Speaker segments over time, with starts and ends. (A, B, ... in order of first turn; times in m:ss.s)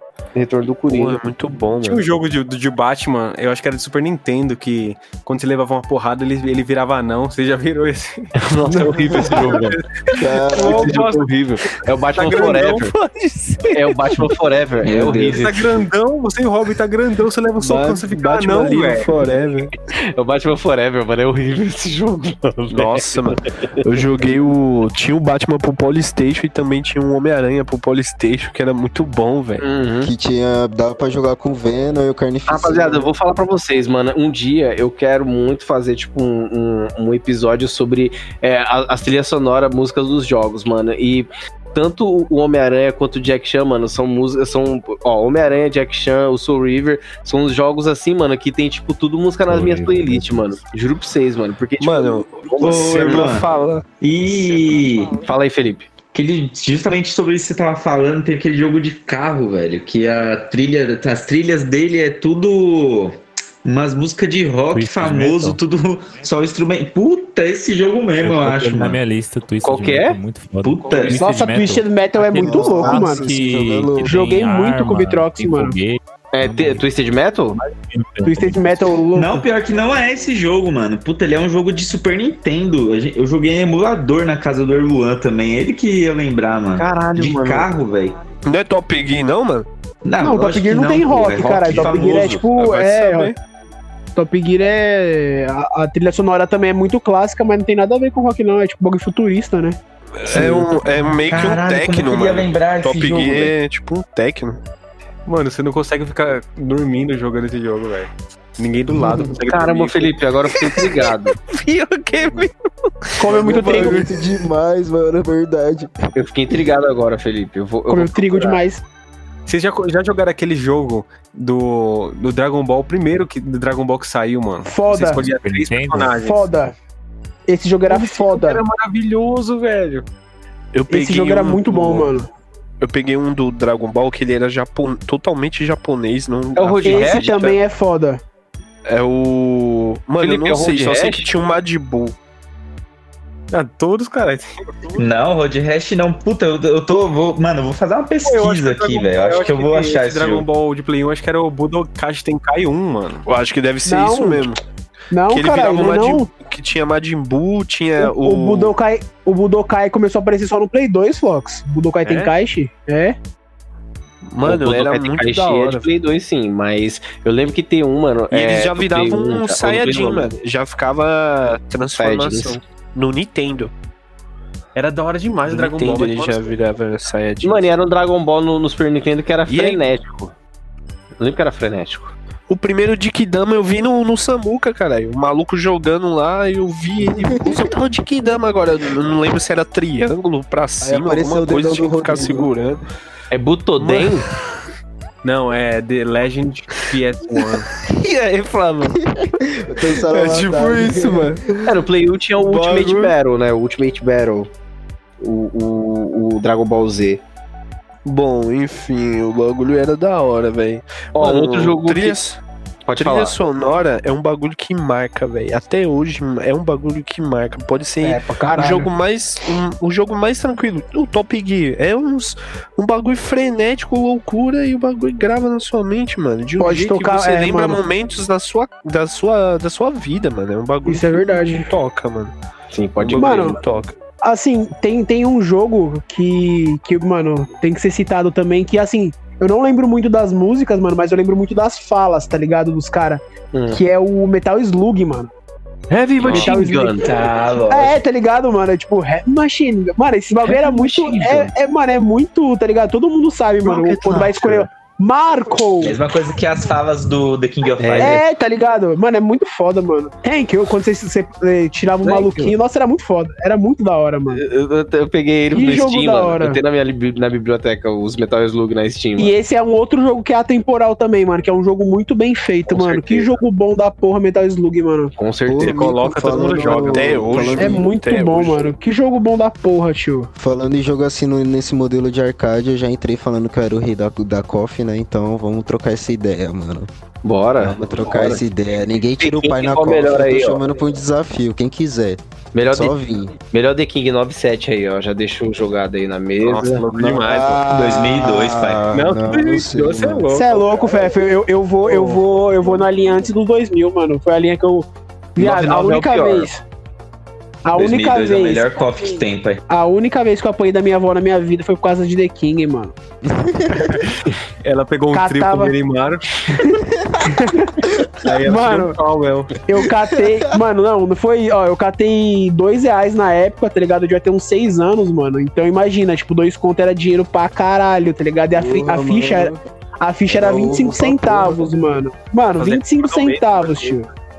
0:00.4-0:01.2 A
0:00.9-0:02.1 B
0:01.8-0:11.3 C
0:08.4-0:09.8 A
0:10.2-0:11.0 D
0:10.5-0:12.9 A
0:12.2-0:12.9 C
0:12.3-0:14.4 B
0:13.7-0:15.5 A
0:14.8-0:15.8 E
0:15.3-0:19.2 C
0:17.6-0:19.7 B
0:19.9-0:24.0 A
0:22.7-0:29.6 B
0:29.6-0:30.1 A
0:30.0-0:33.1 D
0:32.5-0:53.3 A
0:49.4-0:50.5 F
0:51.8-0:53.8 B
0:52.6-0:53.5 E
0:54.0-0:55.2 E
0:55.2-0:55.9 A
0:56.1-1:09.0 E
1:04.7-1:05.6 F
1:08.2-1:16.8 F
1:09.6-1:10.2 A
1:10.6-1:11.2 E
1:11.1-1:13.3 G
1:12.4-1:14.2 D
1:14.0-1:15.8 G
1:16.3-1:17.6 A
1:17.5-1:18.9 F
1:18.2-1:19.4 G
1:19.1-1:28.2 E
1:26.8-1:27.7 A
1:28.5-1:29.7 B
1:30.0-1:32.5 E
1:30.2-1:33.3 G
1:32.5-1:33.4 B
1:34.2-1:39.8 G
1:40.2-1:44.6 B
1:40.3-1:43.5 E
1:45.3-1:50.2 C
1:49.4-1:51.4 A
1:50.8-1:52.5 B
1:53.2-1:54.1 G
1:53.3-1:54.0 C
1:53.3-1:56.0 D
1:56.2-1:58.6 A
1:57.9-1:58.8 G
1:59.5-2:06.4 C
2:04.6-2:05.2 G
2:05.2-2:06.3 F
2:06.2-2:06.7 G
2:07.5-2:08.6 G
2:07.9-2:10.1 C
2:10.7-2:12.1 B
2:10.9-2:12.3 G
2:12.8-2:17.6 B
2:16.6-2:17.4 A
2:16.8-2:18.2 G
2:18.9-2:22.2 B
2:20.2-2:21.3 A
2:23.5-2:25.0 C
2:25.0-2:30.5 E
2:28.2-2:33.2 C
2:33.3-2:34.6 B
2:33.8-2:34.5 G
2:35.1-2:36.3 G
2:35.3-2:38.7 B
2:38.0-2:43.2 G
2:44.3-2:45.9 B
2:44.4-2:50.3 A
2:48.3-2:53.7 B
2:52.0-2:52.6 A
2:54.8-2:56.5 C
2:55.5-2:57.6 B
2:57.4-3:00.3 A
2:59.5-2:59.8 B
3:01.2-3:02.1 A
3:02.5-3:12.8 B
3:07.1-3:07.6 D
3:10.8-3:12.5 D
3:13.3-3:14.3 A
3:13.8-3:14.2 B
3:15.2-3:17.7 C
3:17.8-3:19.0 B
3:19.1-3:21.8 D
3:20.0-3:21.4 B
3:21.6-3:24.5 A
3:22.4-3:23.2 B
3:25.2-3:27.2 A
3:28.1-3:32.4 B
3:31.2-3:32.2 A
3:32.9-3:33.4 A
3:33.0-3:52.3 B
3:38.2-3:38.9 G
3:46.6-3:47.8 G
3:50.9-3:51.7 G
3:52.7-3:53.6 A
3:53.0-3:54.0 B
3:53.2-3:53.6 G
3:54.2-4:05.3 G
4:03.5-4:03.8 A
4:05.9-4:07.1 A
4:06.2-4:07.0 G
4:06.2-4:08.0 E
4:07.7-4:16.0 G
4:10.4-4:11.5 A
4:13.6-4:14.7 A
4:15.8-4:18.2 E
4:17.8-4:18.2 A
4:18.0-4:24.4 G
4:22.0-4:22.5 A
4:24.3-4:29.4 A
4:25.5-4:26.6 G
4:29.2-4:35.1 G
4:32.7-4:33.3 A
4:35.2-4:36.7 A
4:35.5-4:37.9 D
4:35.6-4:37.6 C
4:36.9-4:38.7 B
4:37.6-4:40.3 G
4:40.4-4:46.9 D
4:47.2-4:48.4 A
4:47.6-4:52.2 D
4:49.2-4:50.6 A
4:52.5-4:56.9 A
4:52.7-4:53.4 D
4:56.4-4:57.6 C
4:56.9-5:00.3 D
4:57.6-4:58.9 E
4:58.9-5:00.8 C
5:00.3-5:06.6 G
5:01.9-5:02.2 C
5:05.4-5:06.5 A
5:07.6-5:09.1 G
5:07.8-5:09.6 E
5:09.7-5:13.0 G
5:13.2-5:14.1 D
5:14.6-5:16.2 C
5:15.1-5:15.7 G
5:16.7-5:17.4 D
5:17.3-5:17.9 G
5:18.2-5:19.5 C
5:18.4-5:19.0 G
5:19.6-5:34.1 G
5:28.6-5:29.6 D
5:30.3-5:31.7 D
5:32.6-5:34.0 C